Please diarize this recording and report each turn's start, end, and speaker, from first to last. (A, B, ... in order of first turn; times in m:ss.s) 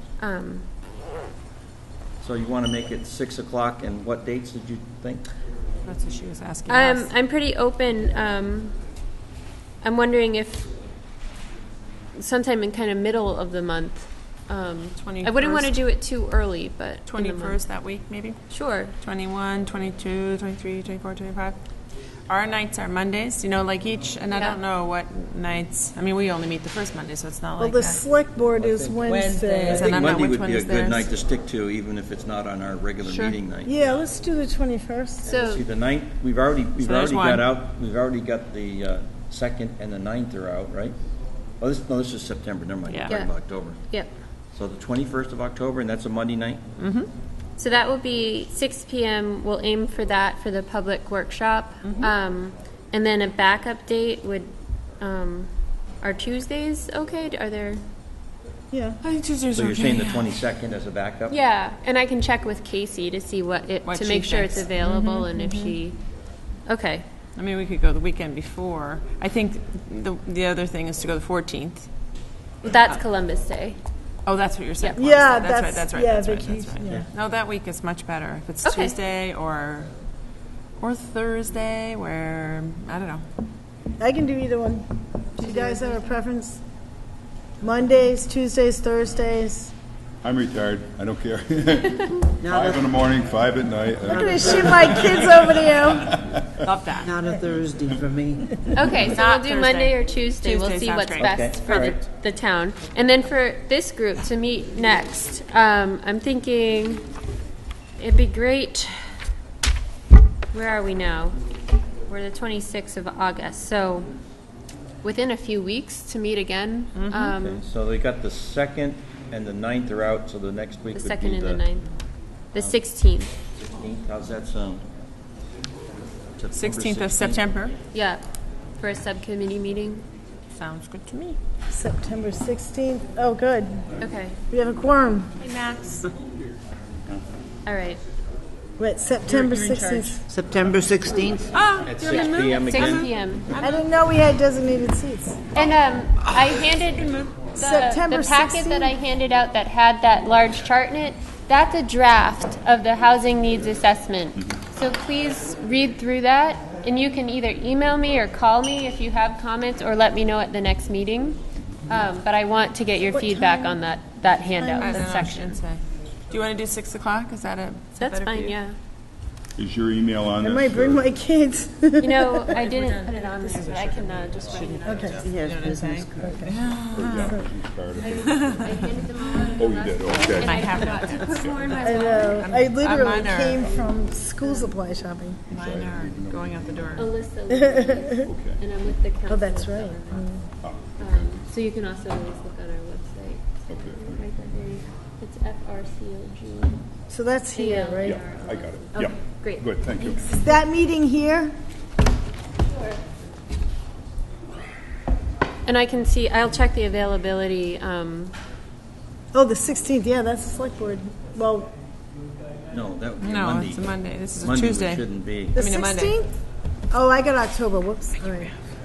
0:00.2-0:00.6 A
0:02.2-0:05.2 B
0:05.8-0:07.1 C
0:06.7-0:08.8 A
0:09.8-0:10.7 A
0:12.1-0:17.6 A
0:15.0-0:15.8 C
0:17.0-0:18.4 C
0:18.5-0:18.9 A
0:19.0-0:21.6 C
0:22.3-0:28.0 C
0:27.6-0:30.0 D
0:28.6-0:29.0 B
0:29.1-0:31.1 C
0:29.6-0:33.7 B
0:33.0-0:33.4 C
0:33.6-0:35.2 D
0:35.2-0:35.6 A
0:35.2-0:41.0 B
0:36.8-0:37.5 C
0:41.6-0:43.8 B
0:42.9-0:43.1 C
0:44.5-0:46.6 B
0:46.8-0:47.1 C
0:47.6-0:55.5 A
0:51.8-0:52.1 C
0:56.0-0:57.8 A
0:58.7-0:59.0 D
0:59.0-1:00.4 C
0:59.5-1:01.4 B
1:01.3-1:06.0 A
1:03.8-1:05.3 C
1:05.3-1:05.7 D
1:06.6-1:07.0 A
1:07.4-1:11.9 C
1:12.6-1:13.8 A
1:14.2-1:19.9 C
1:15.0-1:17.0 D
1:18.6-1:19.0 A
1:20.8-1:23.2 C
1:24.0-1:26.6 D
1:25.4-1:26.0 A
1:27.6-1:29.7 D
1:30.2-1:36.7 E
1:32.4-1:33.2 F
1:34.0-1:36.2 D
1:34.1-1:35.3 F
1:36.6-1:37.1 C
1:36.9-1:39.1 F
1:38.7-1:47.0 A
1:39.0-1:41.4 C
1:41.2-1:42.0 B
1:48.0-1:49.0 A
1:50.5-1:51.4 A
1:52.1-1:54.1 A
1:55.0-1:57.6 A
1:56.9-1:57.3 C
1:57.4-2:01.6 B
2:00.9-2:01.9 A
2:02.5-2:03.3 A
2:03.6-2:04.8 B
2:06.4-2:07.4 B
2:06.5-2:07.7 C
2:07.9-2:08.2 A
2:08.8-2:10.0 A
2:10.5-2:11.4 C
2:11.7-2:13.9 D
2:14.0-2:14.4 A
2:14.5-2:15.3 D
2:15.4-2:16.1 C
2:17.6-2:18.0 A
2:18.8-2:20.2 D
2:19.2-2:20.2 C
2:20.3-2:21.5 F
2:21.5-2:23.8 C
2:21.8-2:23.1 B
2:22.1-2:23.5 A
2:23.6-2:25.4 D
2:25.6-2:45.6 A
2:27.6-2:28.9 D
2:43.1-2:43.8 D
2:44.5-2:45.0 D
2:44.8-2:48.6 C
2:48.0-2:48.7 A
2:49.6-2:51.0 E
2:50.4-2:52.7 D
2:52.0-2:55.3 A
2:52.8-2:57.4 C
2:54.8-2:55.3 D
2:55.2-2:56.6 F
2:56.2-2:56.6 D
2:56.9-2:58.9 E
2:57.9-3:02.5 A
2:58.1-2:58.8 C
2:59.5-3:00.6 E
3:00.4-3:03.7 C
3:01.2-3:01.9 E
3:01.8-3:05.4 D
3:04.4-3:04.7 A
3:05.5-3:07.1 E
3:05.5-3:07.1 C
3:07.0-3:10.3 A
3:07.5-3:08.3 D
3:08.2-3:09.0 E
3:09.3-3:10.4 D
3:10.6-3:11.3 E
3:11.0-3:16.8 A
3:13.7-3:14.3 E
3:17.1-3:18.2 D
3:17.5-3:20.5 A
3:18.0-3:20.4 E
3:20.3-3:21.5 D
3:22.7-3:23.0 A
3:25.6-3:28.4 A
3:29.3-3:31.7 D
3:32.7-3:35.6 B
3:33.2-3:36.2 C
3:35.5-3:36.3 D
3:36.9-3:38.5 D
3:38.2-3:38.5 C